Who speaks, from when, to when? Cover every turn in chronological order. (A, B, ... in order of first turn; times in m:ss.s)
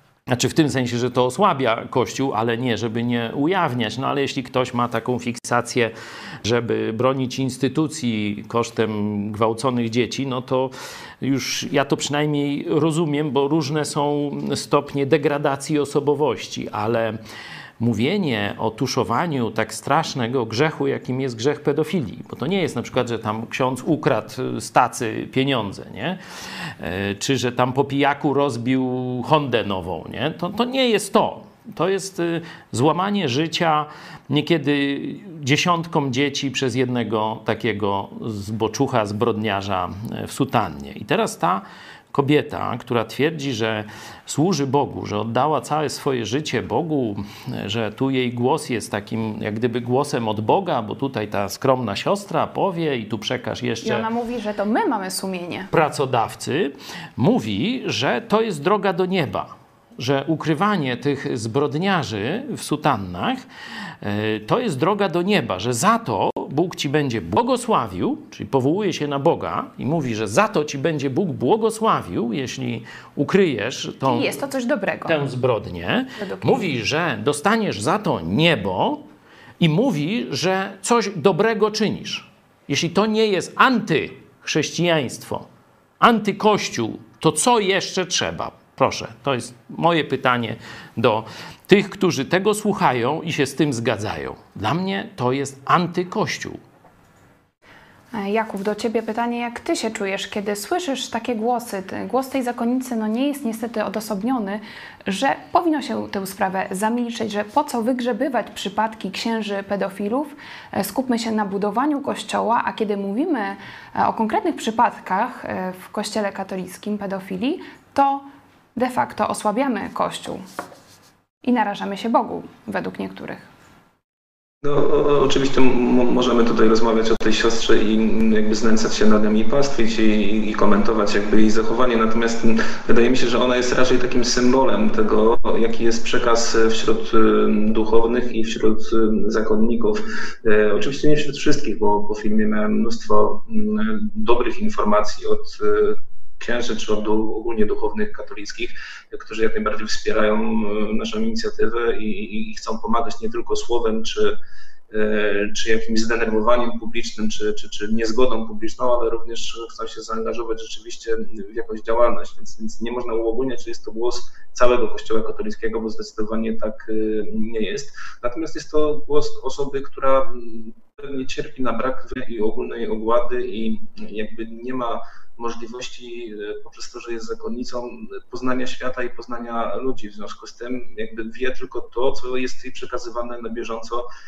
0:00.3-0:17.2 A
0:17.8-0:26.2 A
0:26.8-0:54.1 A
0:53.8-0:55.7 B
0:55.7-1:03.4 A
1:04.0-1:14.3 A
1:14.0-1:15.2 B
1:15.1-1:19.0 A
1:16.2-1:16.7 B
1:19.6-1:25.5 A
1:26.0-1:36.6 A
1:38.1-2:00.4 B
2:01.4-2:03.5 B
2:04.6-2:34.4 C
2:34.9-3:04.0 C